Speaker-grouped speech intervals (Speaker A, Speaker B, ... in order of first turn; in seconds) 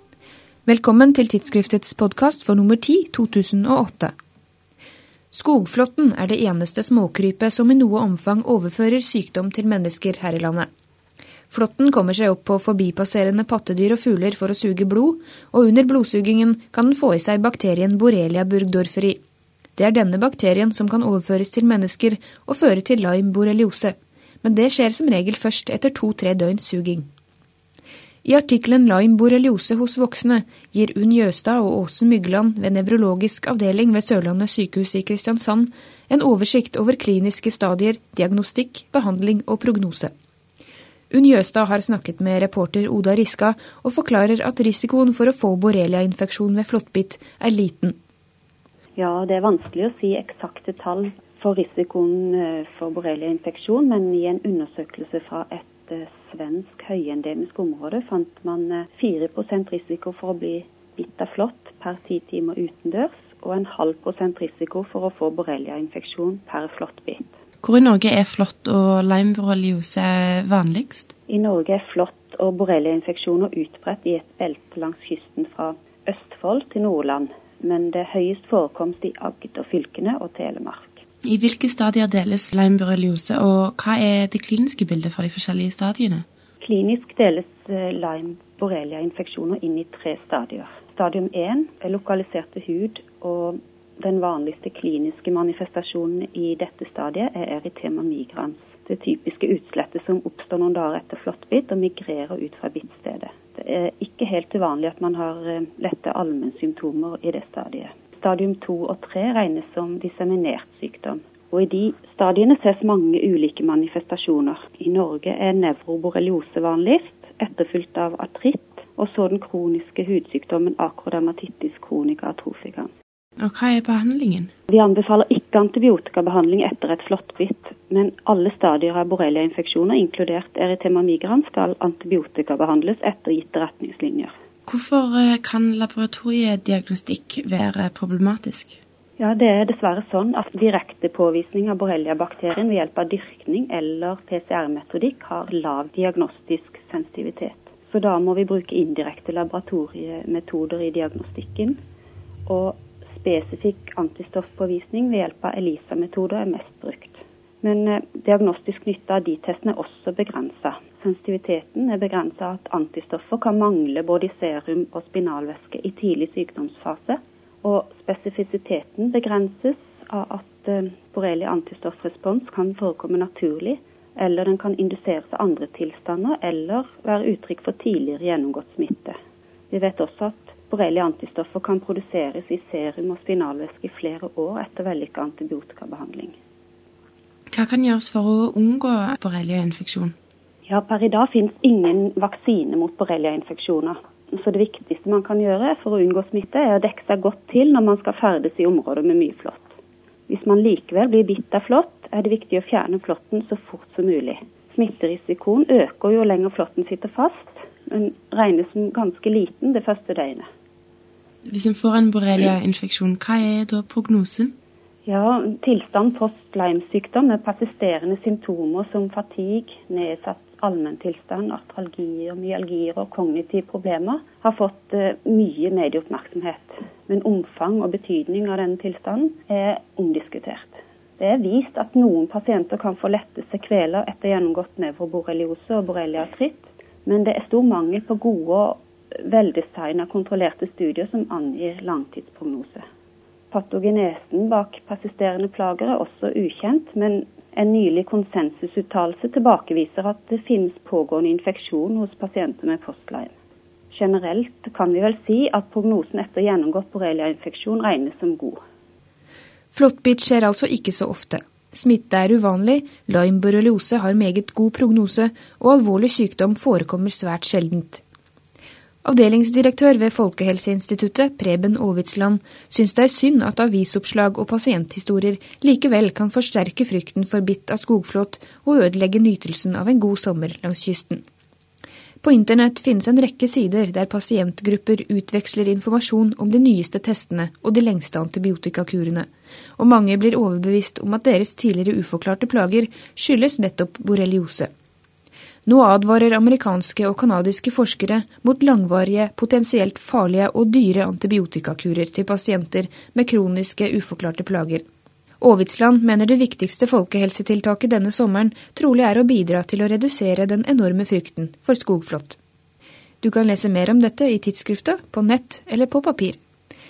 Speaker A: 0.7-4.1, 5.3-10.7, 11.5-19.2, 19.8-27.1, 28.2-40.1, 41.1-48.0, 259.7-268.0, 269.0-281.2, 282.2-294.7, 295.6-304.8, 305.4-312.4, 313.2-316.4
Speaker B: 49.0-67.3, 71.3-81.0, 86.6-122.9, 124.7-134.3, 139.2-151.8, 152.4-179.2, 179.7-186.3, 190.7-199.8, 200.3-210.5, 215.0-242.8, 243.5-253.3, 253.9-258.6
Speaker C: 67.6-71.1, 81.2-86.2, 123.4-124.5, 134.7-138.8, 187.5-190.1, 211.4-214.5